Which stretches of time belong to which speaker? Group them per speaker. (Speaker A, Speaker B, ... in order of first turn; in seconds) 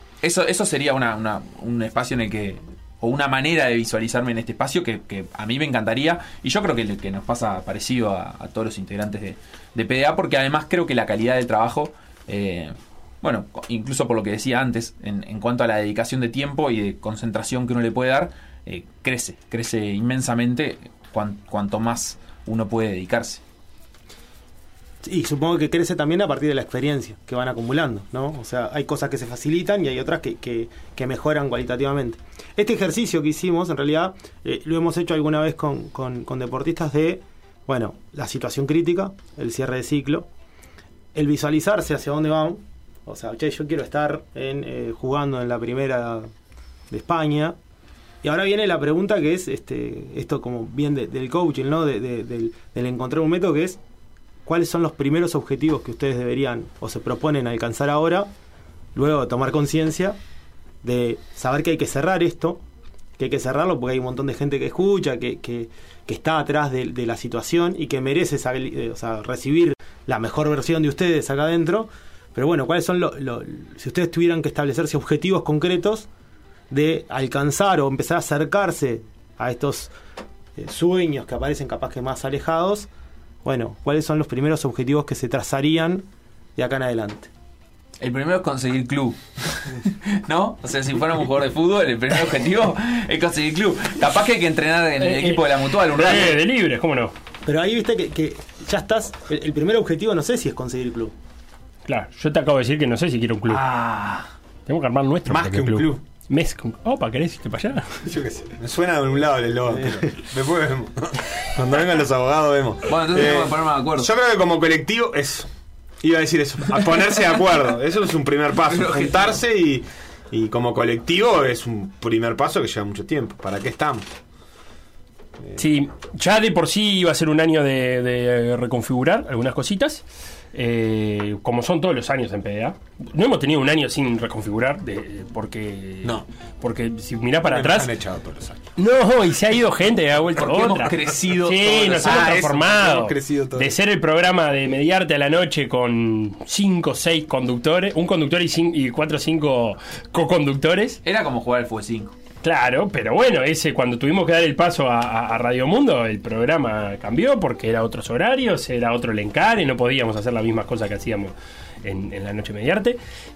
Speaker A: 0.2-23.4, 88.0-96.3, 103.5-104.3, 112.9-114.1, 118.7-119.4, 140.4-142.1, 151.0-152.1
Speaker B: 25.0-40.3, 41.1-46.3, 46.9-47.6, 48.2-53.8, 54.4-58.3, 58.9-60.2, 60.8-62.6, 63.2-76.1, 76.7-79.9, 80.5-82.9, 83.4-87.3, 97.4-101.1
Speaker C: 95.0-97.1, 101.8-103.6, 104.7-108.0, 125.5-137.9, 138.8-151.0, 152.4-163.0
Speaker D: 105.3-106.0, 108.0-115.5, 116.0-124.1, 137.4-138.6, 141.9-143.7